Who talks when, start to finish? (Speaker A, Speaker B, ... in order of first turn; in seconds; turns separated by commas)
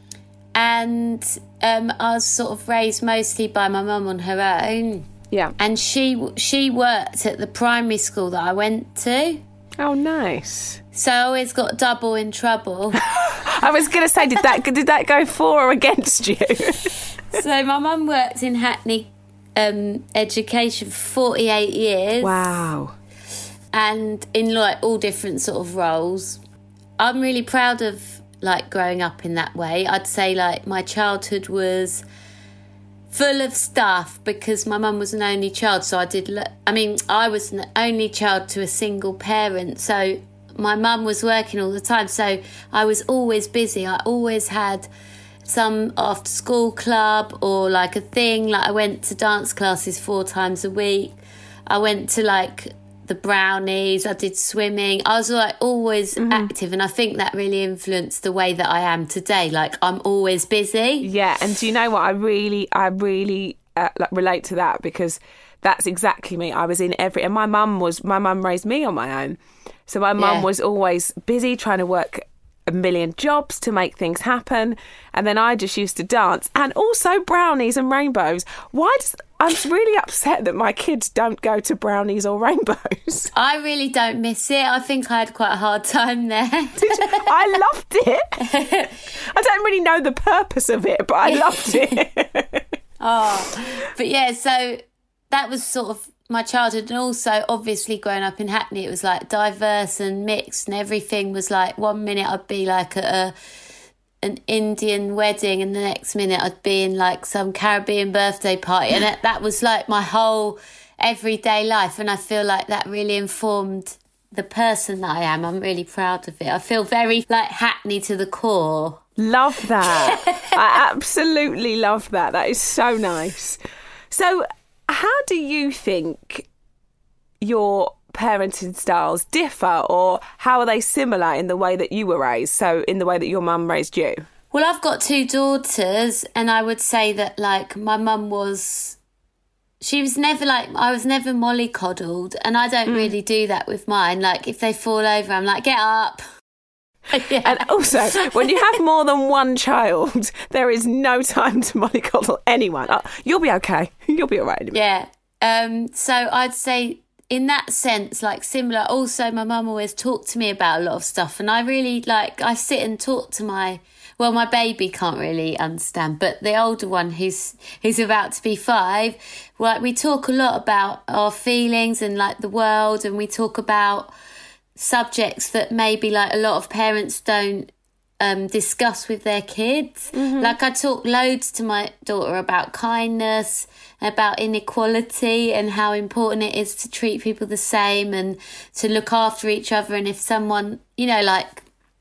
Speaker A: 0.6-9.4, Speaker B: 5.3-5.5, Speaker B: 9.8-10.8, Speaker A: 10.9-13.0, Speaker B: 13.0-16.9, Speaker A: 17.3-22.5, Speaker B: 22.2-22.9, Speaker A: 23.7-26.4, Speaker A: 27.0-32.0, Speaker A: 33.1-44.9, Speaker A: 45.5-61.1, Speaker B: 56.2-56.5, Speaker B: 61.0-83.3, Speaker A: 70.2-70.5, Speaker A: 83.3-87.3, Speaker B: 86.8-88.3, Speaker A: 88.4-89.0, Speaker B: 89.2-92.7, Speaker A: 91.2-92.0, Speaker A: 93.0-94.8, Speaker A: 95.3-103.3, Speaker A: 104.2-119.0, Speaker B: 119.2-123.6, Speaker A: 119.8-120.6, Speaker B: 124.1-126.5, Speaker B: 127.4-134.2, Speaker A: 134.5-139.0, Speaker A: 139.8-146.2, Speaker B: 142.9-143.1, Speaker A: 147.1-148.8, Speaker B: 147.4-154.8, Speaker A: 154.7-174.1, Speaker A: 174.8-191.7, Speaker B: 180.1-180.6